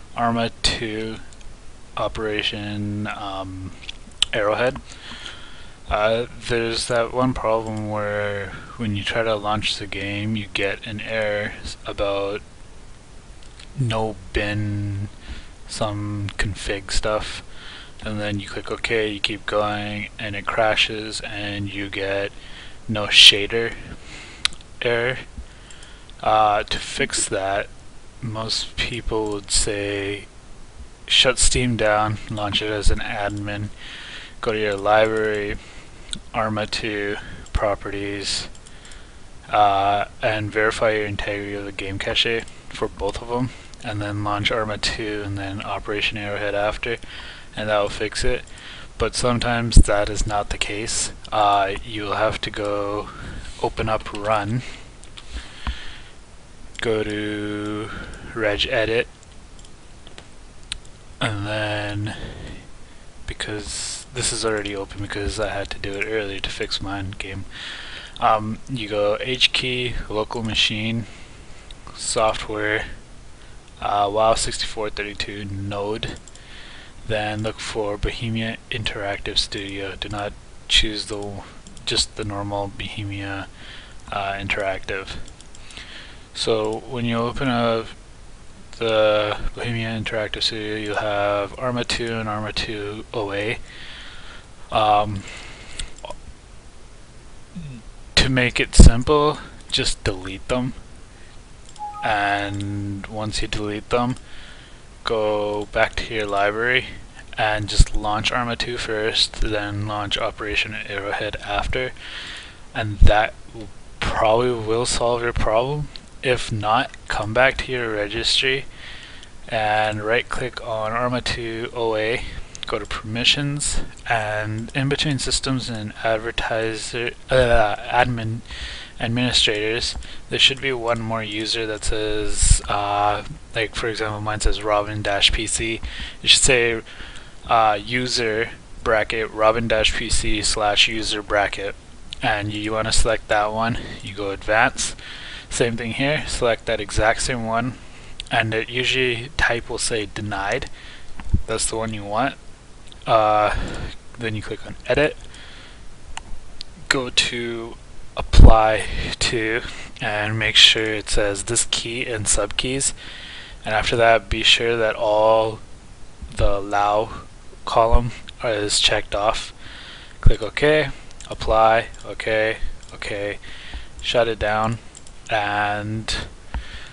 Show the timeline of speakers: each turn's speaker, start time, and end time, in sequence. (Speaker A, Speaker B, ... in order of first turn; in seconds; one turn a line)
Speaker A: 0.1-1.2
Speaker A: 1.9-3.8
Speaker A: 4.3-5.1
Speaker A: 5.9-12.4
Speaker A: 13.8-15.1
Speaker A: 15.7-17.4
Speaker A: 18.0-22.3
Speaker A: 22.9-23.8
Speaker A: 24.8-25.2
Speaker A: 26.2-30.3
Speaker A: 31.1-33.7
Speaker A: 34.4-35.6
Speaker A: 36.3-38.5
Speaker A: 39.5-47.0
Speaker A: 47.5-48.5
Speaker A: 49.0-54.7
Speaker A: 56.8-59.1
Speaker A: 61.2-62.5
Speaker A: 63.2-71.1
Speaker A: 71.9-72.9
Speaker A: 73.8-76.2
Speaker A: 77.0-83.5
Speaker A: 84.1-85.2
Speaker A: 86.3-88.0
Speaker A: 88.7-93.6
Speaker A: 94.7-95.8
Speaker A: 97.6-100.8
Speaker A: 102.0-104.2
Speaker A: 105.0-111.9
Speaker A: 112.7-118.7
Speaker A: 119.5-128.4
Speaker A: 129.0-136.8
Speaker A: 137.4-145.0
Speaker A: 145.5-147.8
Speaker A: 148.3-150.7
Speaker A: 151.4-152.4
Speaker A: 153.0-155.2
Speaker A: 156.9-162.9
Speaker A: 163.6-165.6
Speaker A: 166.3-169.5
Speaker A: 170.2-173.4
Speaker A: 174.0-176.3